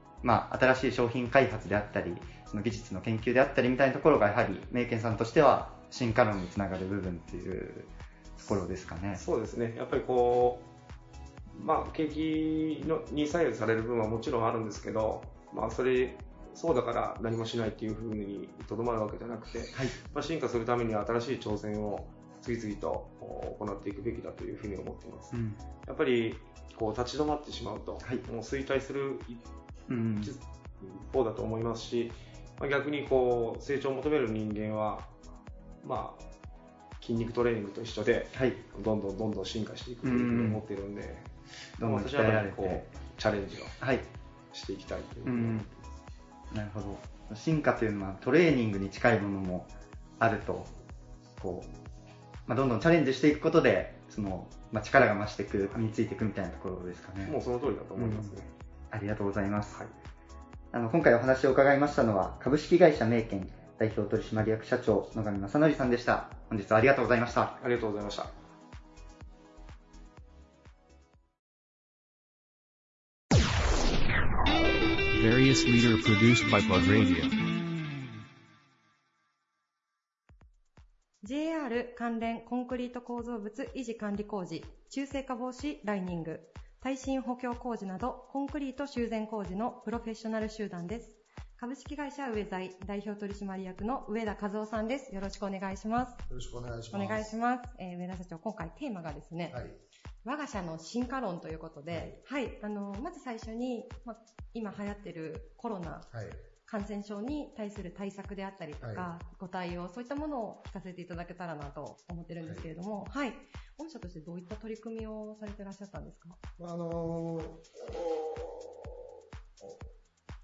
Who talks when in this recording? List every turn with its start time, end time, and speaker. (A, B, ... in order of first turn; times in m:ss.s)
0:00.2-0:09.2 A
0:09.1-0:10.7 B
0:11.5-0:29.4 B
0:25.3-0:25.6 A
0:29.9-0:30.3 A
0:30.2-0:35.1 B
0:35.8-0:36.2 B
0:37.0-0:43.9 B
0:38.3-0:38.6 A
0:40.0-0:40.6 A
0:41.8-0:42.8 A
0:43.8-0:44.0 A
0:44.5-0:46.0 B
0:45.2-0:45.7 A
0:46.5-0:50.7 A
0:51.4-0:51.7 A
0:52.5-0:57.3 A
0:57.2-0:58.5 B
0:58.0-0:58.4 A
0:58.9-0:59.8 A
1:00.7-1:07.6 A
1:07.6-1:08.3 B
1:15.1-1:17.4 C
1:21.2-1:36.2 D
1:36.3-1:37.3 E
1:36.9-1:39.6 D
1:39.5-1:39.8 E
1:40.2-1:46.1 D
1:41.9-1:42.2 E
1:46.1-1:46.5 E
1:46.6-1:56.4 D
1:48.8-1:49.1 E
1:52.4-1:52.7 E
1:56.6-1:59.8 E